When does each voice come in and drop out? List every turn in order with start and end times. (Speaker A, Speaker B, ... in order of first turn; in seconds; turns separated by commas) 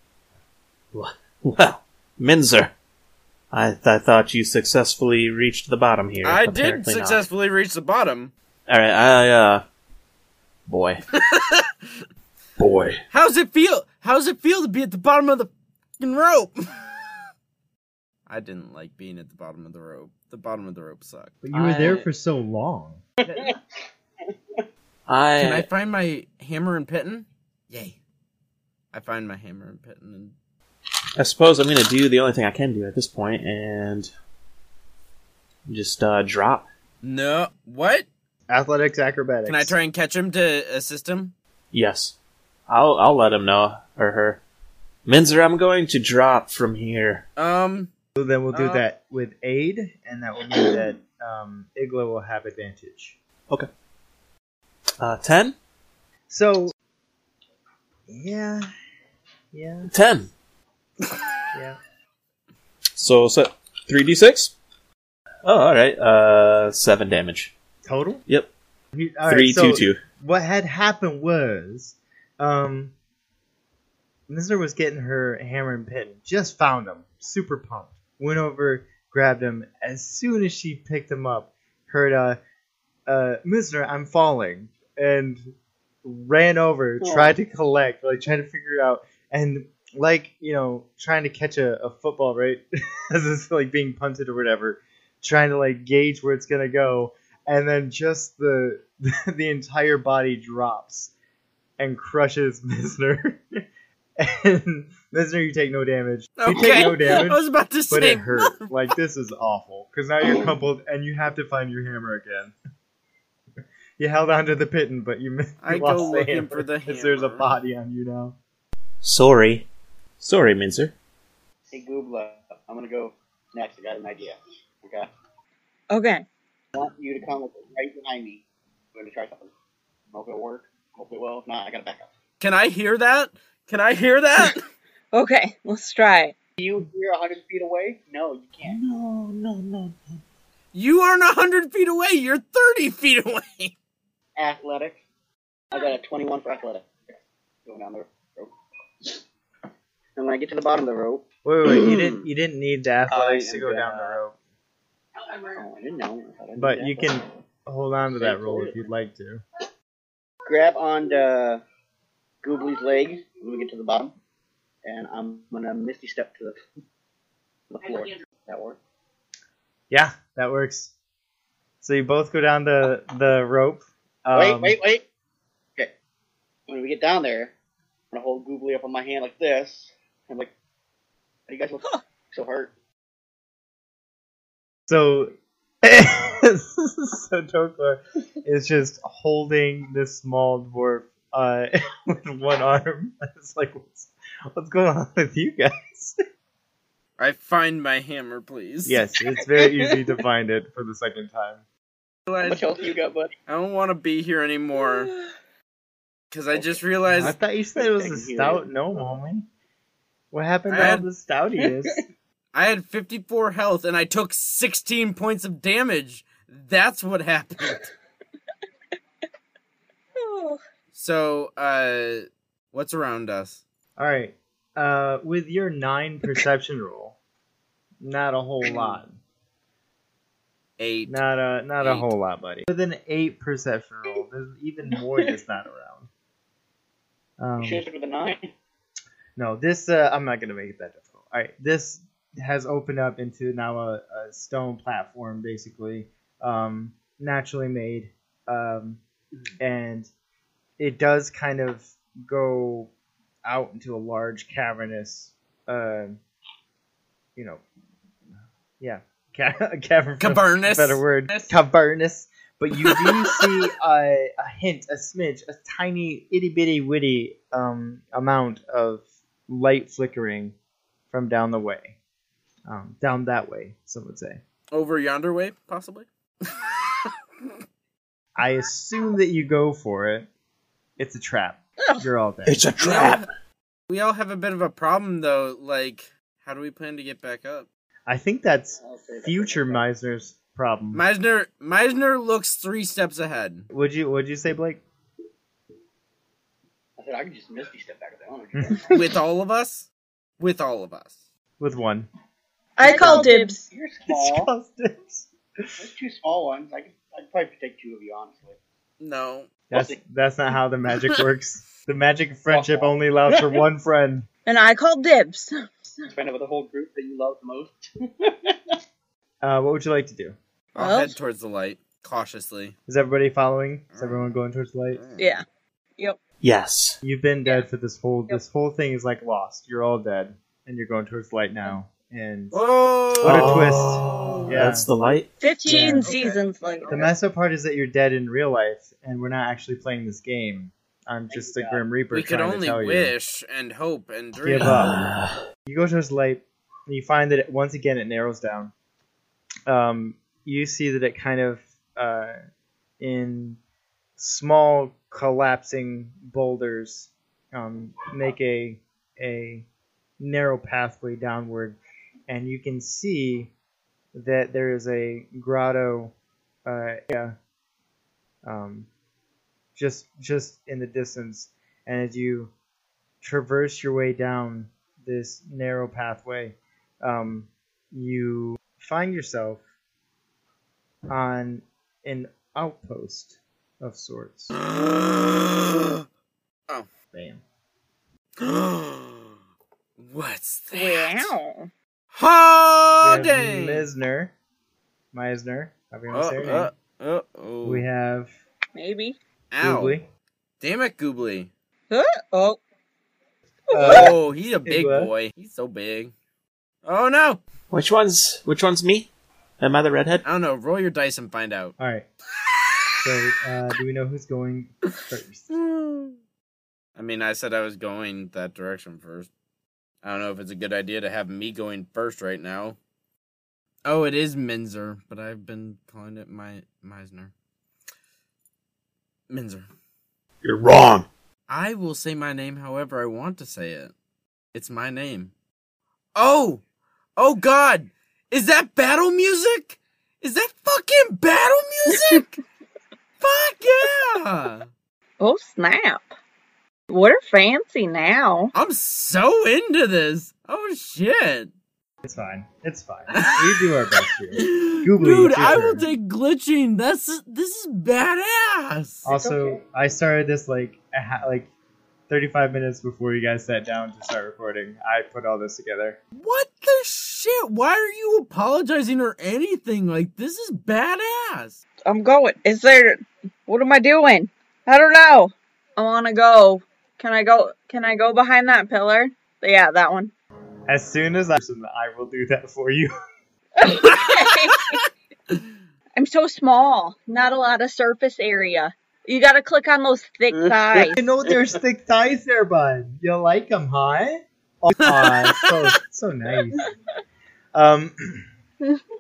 Speaker A: 0.9-2.7, Speaker A: 3.5-7.2, Speaker B: 6.2-8.3, Speaker A: 8.7-9.6, Speaker A: 10.7-11.0, Speaker B: 11.2-11.9, Speaker A: 12.6-13.0, Speaker B: 13.1-16.6, Speaker B: 18.3-22.1, Speaker C: 21.4-23.0, Speaker D: 23.2-23.6, Speaker A: 25.1-25.7, Speaker B: 25.4-28.0, Speaker B: 28.9-30.3, Speaker A: 31.2-34.1, Speaker A: 35.7-36.7, Speaker B: 37.0-38.1, Speaker C: 38.5-39.7, Speaker B: 39.5-41.3, Speaker A: 41.7-42.1, Speaker A: 42.7-44.4, Speaker A: 45.1-47.2, Speaker B: 47.4-47.9, Speaker C: 48.2-53.2, Speaker B: 48.5-48.8, Speaker A: 55.0-55.6, Speaker C: 56.3-56.7, Speaker C: 58.1-58.7, Speaker C: 59.5-59.9, Speaker A: 59.9-60.3, Speaker C: 61.5-61.8, Speaker A: 63.0-64.5, Speaker A: 65.4-67.5, Speaker C: 67.9-68.2, Speaker C: 68.9-72.9, Speaker A: 69.3-70.0, Speaker C: 74.3-82.4, Speaker C: 83.1-85.5, Speaker C: 86.0-101.1, Speaker D: 87.0-87.3, Speaker C: 101.8-103.4, Speaker C: 104.2-112.5, Speaker B: 106.4-108.7, Speaker C: 114.0-118.4, Speaker B: 115.6-117.5, Speaker A: 119.0-119.7, Speaker A: 120.2-120.9, Speaker D: 121.7-125.1, Speaker E: 125.9-126.2, Speaker D: 126.7-129.5, Speaker D: 130.1-132.1, Speaker B: 132.4-134.6, Speaker E: 135.1-136.3, Speaker D: 136.6-138.8, Speaker A: 138.6-140.0, Speaker B: 140.7-143.7, Speaker D: 144.4-145.0, Speaker D: 145.7-148.5, Speaker D: 150.2-152.3, Speaker C: 151.4-154.3, Speaker D: 153.1-154.2, Speaker D: 155.3-157.2, Speaker C: 156.6-159.4, Speaker D: 158.1-158.8, Speaker D: 160.5-161.6, Speaker D: 162.4-164.1, Speaker D: 164.8-166.6, Speaker D: 167.7-168.8, Speaker C: 169.9-170.9, Speaker C: 171.8-174.8, Speaker D: 174.3-175.1, Speaker D: 176.7-177.5, Speaker D: 178.1-180.5, Speaker D: 181.5-182.7, Speaker C: 184.9-196.2, Speaker B: 197.2-199.0, Speaker C: 198.9-201.6, Speaker D: 199.4-200.2, Speaker B: 202.3-202.7, Speaker D: 202.4-203.3, Speaker B: 203.5-205.1, Speaker B: 206.3-207.4, Speaker C: 207.1-209.5, Speaker D: 207.3-208.7, Speaker C: 210.3-212.0, Speaker B: 210.7-211.1, Speaker D: 211.6-212.0, Speaker B: 212.5-217.9, Speaker E: 220.2-220.6, Speaker B: 220.9-223.6, Speaker C: 224.0-227.2, Speaker C: 228.0-229.2, Speaker B: 230.8-231.2, Speaker C: 231.1-236.1, Speaker B: 231.8-232.1, Speaker C: 237.4-237.8, Speaker D: 237.6-238.5, Speaker C: 239.4-249.0, Speaker C: 249.6-250.1, Speaker C: 250.8-252.9, Speaker C: 253.5-256.2, Speaker C: 257.4-257.6, Speaker C: 258.8-270.6, Speaker B: 260.2-261.5, Speaker B: 262.8-263.5, Speaker C: 271.1-272.0, Speaker C: 272.7-274.4, Speaker B: 274.7-277.1, Speaker C: 278.4-280.3, Speaker C: 281.0-282.7, Speaker E: 281.8-282.1, Speaker A: 282.5-283.2, Speaker B: 282.8-283.3, Speaker B: 283.9-287.7, Speaker C: 288.1-291.0, Speaker D: 288.8-289.9, Speaker B: 290.9-293.7, Speaker C: 293.7-294.8, Speaker D: 297.0-299.0, Speaker C: 298.6-299.0, Speaker B: 298.9-299.9, Speaker B: 300.4-301.2, Speaker C: 301.6-302.1, Speaker E: 302.8-303.6, Speaker D: 302.8-304.5, Speaker C: 302.8-303.3, Speaker C: 304.1-305.7, Speaker D: 305.8-308.6, Speaker B: 309.0-309.5, Speaker D: 309.7-310.0, Speaker C: 309.7-314.3, Speaker D: 312.5-313.6, Speaker E: 314.5-316.1, Speaker D: 316.1-318.8, Speaker C: 319.4-320.4, Speaker B: 320.8-322.8, Speaker E: 320.8-321.2, Speaker C: 322.9-325.0, Speaker B: 323.9-324.3, Speaker B: 324.9-325.3, Speaker E: 325.2-325.4, Speaker A: 326.4-327.0, Speaker C: 327.0-332.6, Speaker B: 332.5-334.6, Speaker C: 333.2-334.9, Speaker A: 333.2-335.3, Speaker E: 335.4-336.9, Speaker C: 335.7-336.1, Speaker B: 336.1-336.4, Speaker C: 336.9-343.1, Speaker D: 341.3-341.8, Speaker B: 342.1-345.0, Speaker C: 344.3-345.0, Speaker A: 344.6-345.4, Speaker C: 345.7-348.7, Speaker C: 349.7-352.4, Speaker C: 353.0-353.6, Speaker C: 354.2-359.7, Speaker C: 360.2-363.5, Speaker C: 364.1-366.1, Speaker C: 366.7-367.4, Speaker C: 368.4-368.9, Speaker C: 369.8-372.5, Speaker C: 373.2-379.6, Speaker C: 381.1-384.6, Speaker B: 384.5-386.0, Speaker C: 387.1-387.4, Speaker B: 388.4-389.3, Speaker B: 390.0-391.3, Speaker E: 390.7-391.7, Speaker B: 392.1-393.9, Speaker C: 393.0-394.3, Speaker C: 395.1-396.7, Speaker B: 396.1-397.9, Speaker C: 397.6-398.3, Speaker E: 398.8-399.2, Speaker B: 399.5-400.0, Speaker C: 399.6-400.1, Speaker B: 400.6-401.5, Speaker E: 401.9-402.6, Speaker C: 403.7-405.1, Speaker E: 403.8-404.1, Speaker B: 403.8-406.1, Speaker B: 406.9-407.4, Speaker A: 407.7-410.2, Speaker B: 410.2-411.7, Speaker C: 411.8-412.1, Speaker C: 413.0-415.5, Speaker B: 415.5-416.2, Speaker B: 417.0-419.3, Speaker B: 420.0-422.8, Speaker B: 423.9-427.3, Speaker B: 429.3-429.7, Speaker A: 430.4-431.1, Speaker B: 431.5-433.9, Speaker B: 434.5-435.3, Speaker B: 436.2-436.6, Speaker B: 437.2-442.3, Speaker B: 443.2-444.7, Speaker E: 445.2-446.1, Speaker E: 446.9-448.5, Speaker B: 448.5-451.5, Speaker C: 452.0-455.9, Speaker B: 453.1-459.1, Speaker C: 459.1-461.5, Speaker D: 459.1-459.6, Speaker C: 462.1-466.0, Speaker B: 466.2-471.6, Speaker E: 471.9-480.1, Speaker C: 480.7-482.9, Speaker E: 483.6-484.8, Speaker E: 486.0-491.0, Speaker D: 490.3-490.7, Speaker C: 490.8-496.7, Speaker B: 494.8-495.5, Speaker C: 497.5-498.3